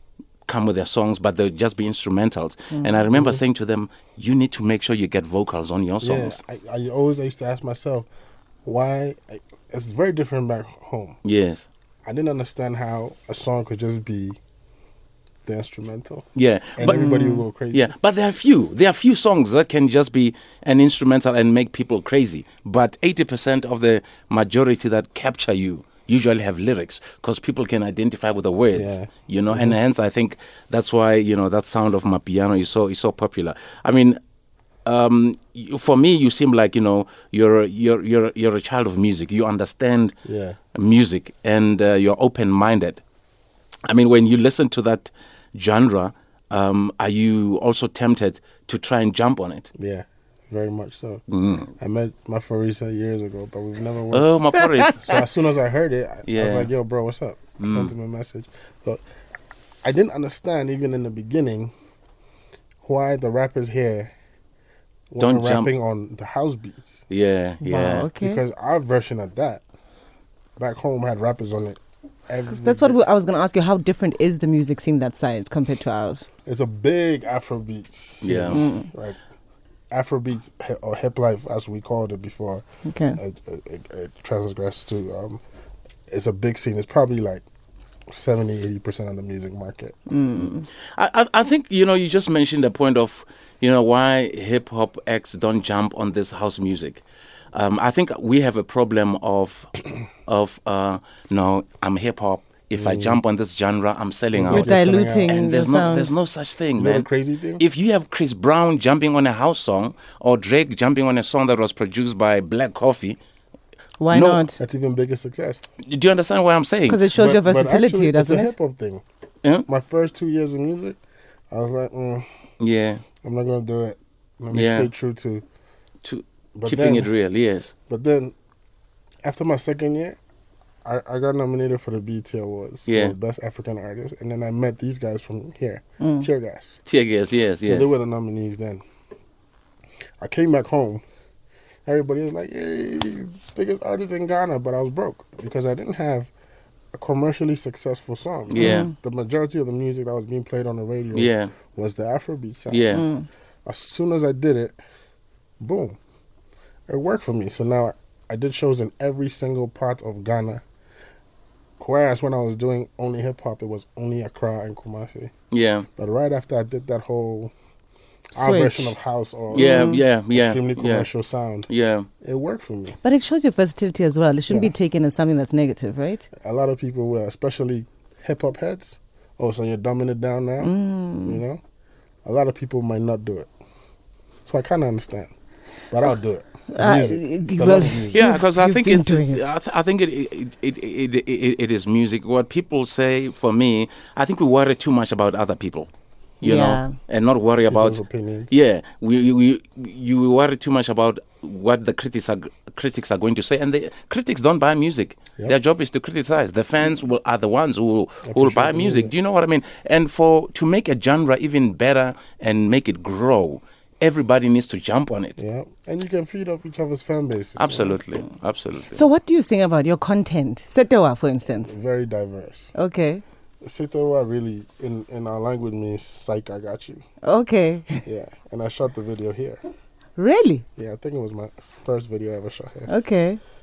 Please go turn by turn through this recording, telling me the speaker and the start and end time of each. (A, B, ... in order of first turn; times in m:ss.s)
0:00.5-0:06.4 A
0:03.1-0:03.4 B
0:06.0-0:08.1 B
0:08.6-0:11.2 B
0:11.2-0:11.7 A
0:12.1-0:14.4 B
0:15.5-0:17.9 B
0:16.4-0:34.2 A
0:16.8-0:17.4 C
0:28.7-0:29.8 B
0:34.9-0:40.2 A
0:40.2-0:40.6 B
0:40.7-0:43.0 A
0:43.9-0:49.7 A
0:49.8-0:51.2 B
0:51.3-0:51.7 A
0:51.8-0:59.0 B
0:54.1-0:55.2 A
0:54.6-0:54.9 C
0:56.3-0:56.7 A
0:57.6-0:57.9 A
0:59.8-1:01.7 B
1:02.8-1:04.1 B
1:05.1-1:07.0 B
1:05.2-1:05.7 A
1:07.1-1:08.1 A
1:07.6-1:08.4 C
1:08.2-1:09.6 B
1:10.6-1:13.0 B
1:12.5-1:16.3 C
1:16.4-1:19.2 B
1:18.2-1:18.6 A
1:18.5-1:18.9 C
1:19.9-1:22.6 B
1:22.9-1:23.2 C
1:23.2-1:25.4 B
1:26.1-1:27.4 B
1:28.1-1:30.2 B
1:30.1-1:30.7 C
1:31.0-1:39.7 A
1:40.2-1:47.1 A
1:42.7-1:43.2 B
1:44.3-1:45.6 B
1:44.5-1:46.1 C
1:46.8-1:47.6 B
1:47.6-1:53.2 A
1:54.0-1:54.6 C
1:54.1-1:54.4 A
1:54.6-1:55.6 B
1:55.8-1:57.0 A
1:56.9-1:58.5 C
1:57.1-1:59.0 B
1:59.7-2:01.0 B
2:01.5-2:02.3 B
2:02.6-2:03.0 A
2:03.2-2:05.4 B
2:04.5-2:04.9 A
2:06.0-2:07.7 A
2:06.6-2:07.1 B
2:07.9-2:08.4 B
2:09.2-2:10.2 B
2:10.8-2:16.8 B
2:12.9-2:13.2 A
2:16.0-2:16.3 C
2:16.9-2:17.9 A
2:17.6-2:18.8 B
2:20.2-2:21.0 B
2:21.9-2:26.3 B
2:26.9-2:33.1 B
2:28.5-2:28.9 A
2:28.6-2:28.9 C
2:31.1-2:31.5 A
2:32.7-2:33.1 A
2:32.9-2:33.3 C
2:33.7-2:34.8 B
2:35.6-2:36.0 B
2:36.9-2:40.6 B
2:41.8-2:45.3 B
2:45.5-2:45.9 A
2:46.0-2:47.5 B
2:48.3-2:51.7 B
2:48.3-2:49.0 C
2:49.5-2:50.0 C
2:49.5-2:51.1 A
2:51.7-2:52.1 A
2:52.2-2:53.0 B
2:53.0-2:56.3 C
2:54.5-2:54.7 B
2:56.4-3:01.6 B
3:00.6-3:01.4 C
3:02.2-3:03.5 B
3:04.5-3:05.3 B
3:05.9-3:08.4 B
3:06.7-3:09.5 C
3:08.1-3:18.0 A
3:16.4-3:17.0 C
3:17.7-3:18.6 B
3:18.5-3:35.4 A
3:28.2-3:29.1 B
3:35.4-3:38.2 B
3:37.6-3:39.1 A
3:38.9-3:41.7 C
3:41.5-3:42.7 B
3:42.8-3:43.2 C
3:43.6-3:47.0 B
3:47.2-3:48.0 C
3:48.0-3:49.6 B
3:50.2-3:50.6 C
3:50.8-3:52.9 B
3:52.9-3:53.4 C